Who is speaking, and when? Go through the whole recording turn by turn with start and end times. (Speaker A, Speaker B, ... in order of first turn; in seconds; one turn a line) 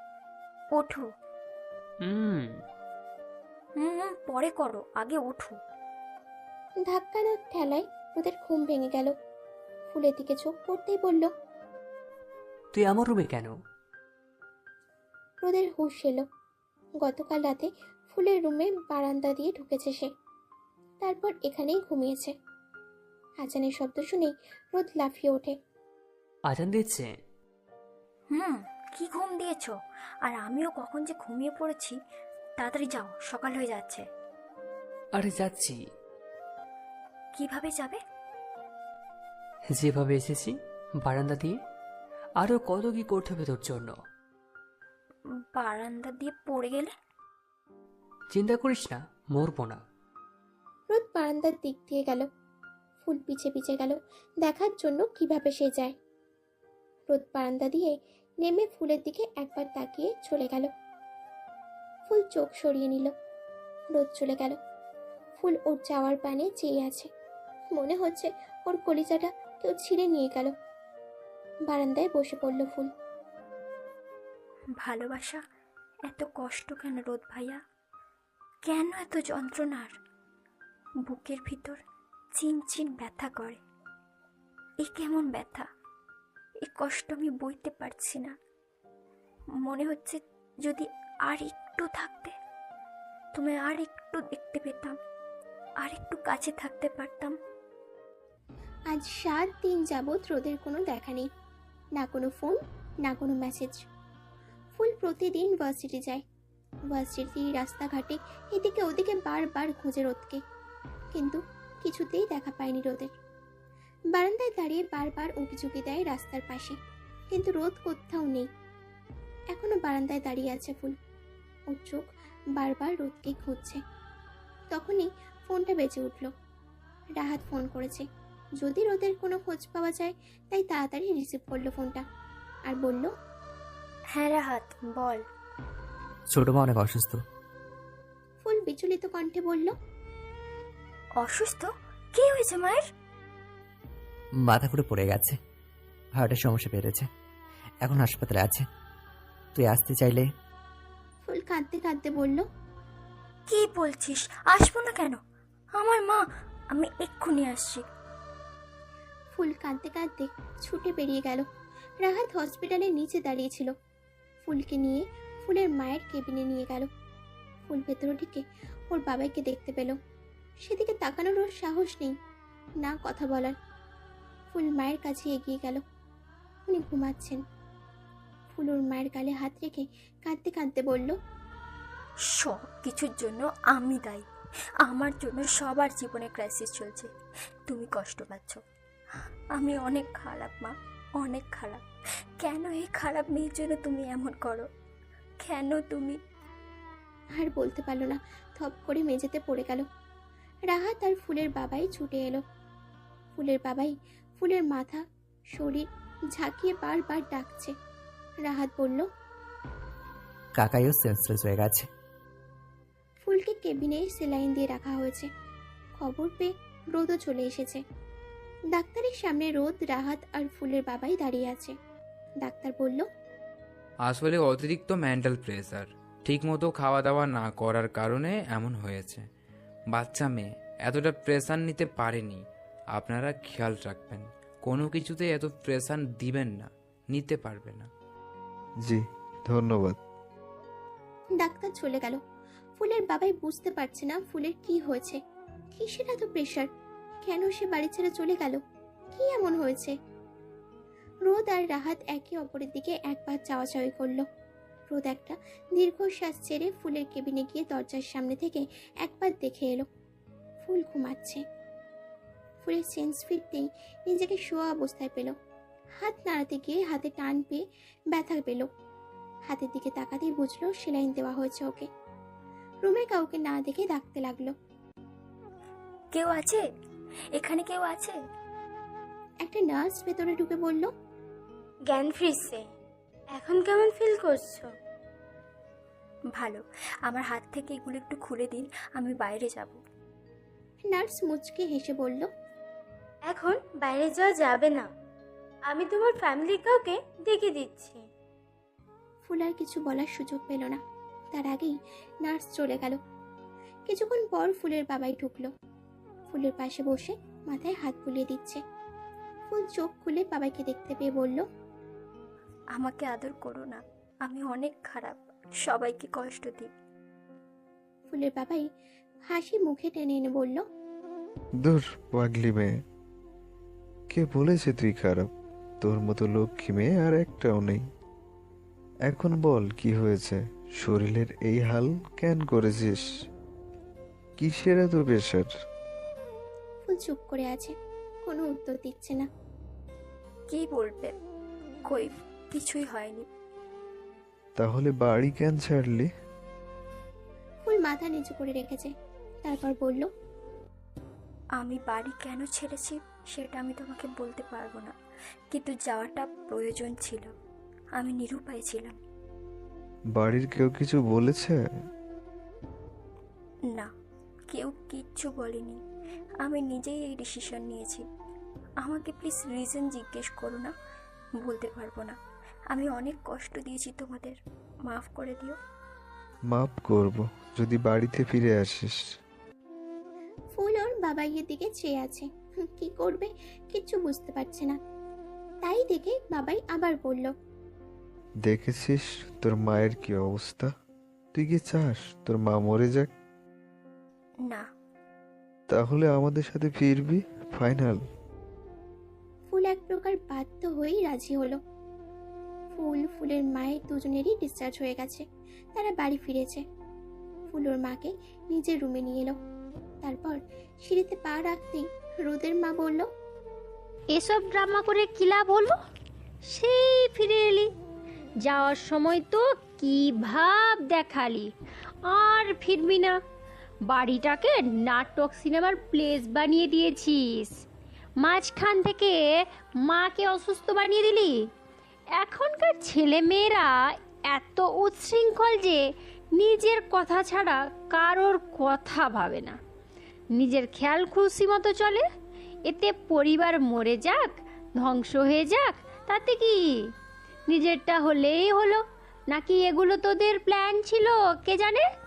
Speaker A: 0.7-1.1
Speaker B: 2.0-2.6
Speaker A: 3.8-5.6
Speaker C: 6.8-9.1
Speaker C: 9.9-11.3
Speaker B: 12.7-13.5
Speaker C: 15.4-16.3
Speaker C: 17.0-20.1
Speaker C: 21.0-22.3
Speaker C: 23.4-25.6
Speaker B: 26.5-27.1
Speaker A: 28.3-32.0
Speaker A: 32.6-34.0
Speaker B: 35.1-35.8
Speaker A: 37.3-38.0
Speaker B: 39.7-41.6
Speaker B: 42.4-43.9
Speaker A: 45.5-46.9
Speaker B: 48.3-49.8
Speaker C: 50.9-52.3
Speaker C: 53.0-55.9
Speaker C: 57.1-60.7
Speaker C: 62.1-63.1
Speaker C: 63.9-64.6
Speaker C: 65.4-67.1
Speaker C: 67.7-70.5
Speaker C: 71.7-72.9
Speaker A: 74.8-75.4
Speaker A: 76.1-77.6
Speaker A: 78.7-80.0
Speaker A: 81.0-81.8
Speaker A: 82.3-83.6
Speaker A: 84.8-85.7
Speaker A: 86.6-88.3
Speaker A: 89.6-92.3
Speaker A: 93.3-95.0
Speaker A: 95.8-97.4
Speaker C: 98.9-101.3
Speaker C: 102.0-103.8
Speaker C: 104.7-106.2
Speaker C: 106.9-110.4
Speaker C: 111.1-113.1
Speaker C: 114.1-116.8
Speaker C: 117.3-118.5
Speaker C: 119.5-121.0
Speaker C: 121.7-122.0
Speaker C: 122.5-123.8
Speaker C: 124.7-126.3
Speaker C: 127.2-128.1
Speaker C: 128.6-132.1
Speaker C: 132.7-133.1
Speaker A: 134.1-135.2
Speaker D: 136.3-137.2
Speaker C: 138.4-139.8
Speaker A: 141.2-142.9
Speaker D: 144.4-145.4
Speaker D: 146.2-147.1
Speaker D: 147.8-148.7
Speaker D: 149.5-150.3
Speaker C: 151.2-152.5
Speaker A: 153.5-155.2
Speaker A: 155.8-157.8
Speaker C: 159.3-161.5
Speaker C: 162.0-163.7
Speaker C: 164.4-166.9
Speaker C: 167.7-170.0
Speaker C: 170.6-172.2
Speaker C: 172.8-173.6
Speaker C: 174.5-175.8
Speaker C: 176.7-177.4
Speaker C: 178.5-181.2
Speaker A: 182.2-184.2
Speaker A: 184.8-187.1
Speaker A: 187.7-188.6
Speaker A: 189.5-191.8
Speaker A: 192.4-194.7
Speaker A: 195.4-196.2
Speaker C: 197.3-199.9
Speaker C: 200.7-202.4
Speaker C: 203.3-207.8
Speaker C: 208.4-209.1
Speaker D: 210.6-211.9
Speaker C: 213.2-215.3
Speaker C: 216.0-217.8
Speaker C: 218.7-221.8
Speaker C: 222.4-223.1
Speaker E: 224.0-229.2
Speaker E: 229.9-232.4
Speaker E: 232.9-237.9
Speaker F: 238.8-240.0
Speaker C: 241.4-242.2
Speaker C: 242.8-245.2
Speaker C: 245.7-246.7
Speaker C: 247.2-248.6
Speaker C: 249.1-249.9
Speaker C: 251.2-254.3
Speaker C: 254.9-259.9
Speaker C: 260.6-261.4
Speaker C: 262.6-265.4
Speaker C: 266.0-268.7
Speaker C: 269.5-271.9
Speaker C: 272.8-274.5
Speaker A: 276.1-276.6
Speaker A: 277.3-278.2
Speaker C: 279.4-280.9
Speaker G: 281.9-282.6
Speaker G: 283.3-284.7
Speaker A: 286.3-289.8
Speaker C: 290.8-292.3
Speaker G: 293.2-294.9
Speaker G: 295.7-298.0
Speaker C: 299.2-300.8
Speaker C: 301.3-303.0
Speaker C: 303.9-305.5
Speaker C: 306.3-308.6
Speaker C: 309.5-311.5
Speaker A: 312.7-316.7
Speaker C: 318.1-318.7
Speaker C: 319.3-320.6
Speaker F: 321.6-322.8
Speaker F: 324.1-325.3
Speaker F: 325.8-327.8
Speaker F: 329.1-333.1
Speaker F: 334.4-335.5
Speaker C: 336.9-339.3
Speaker A: 340.5-341.1
Speaker A: 341.8-343.3
Speaker F: 344.6-346.1
Speaker C: 347.6-348.9
Speaker C: 349.4-350.1
Speaker A: 351.6-354.9
Speaker A: 355.5-357.3
Speaker A: 357.9-359.0
Speaker F: 360.2-361.6
Speaker A: 364.5-365.8
Speaker A: 366.4-368.1
Speaker A: 368.8-370.7
Speaker A: 371.4-372.2
Speaker A: 372.7-375.6
Speaker F: 376.5-379.0
Speaker C: 380.5-384.8
Speaker C: 385.6-387.3
Speaker F: 388.5-390.7
Speaker F: 391.3-393.1
Speaker F: 395.7-398.0
Speaker C: 399.5-401.6
Speaker C: 402.7-406.6
Speaker C: 407.5-409.4
Speaker C: 410.0-413.1
Speaker H: 414.1-415.8
Speaker H: 416.5-417.7
Speaker H: 418.4-421.5
Speaker H: 422.0-423.2
Speaker H: 423.9-427.6
Speaker H: 428.2-431.5
Speaker H: 432.1-439.6
Speaker H: 440.3-442.1
Speaker H: 442.7-446.9
Speaker H: 447.5-451.9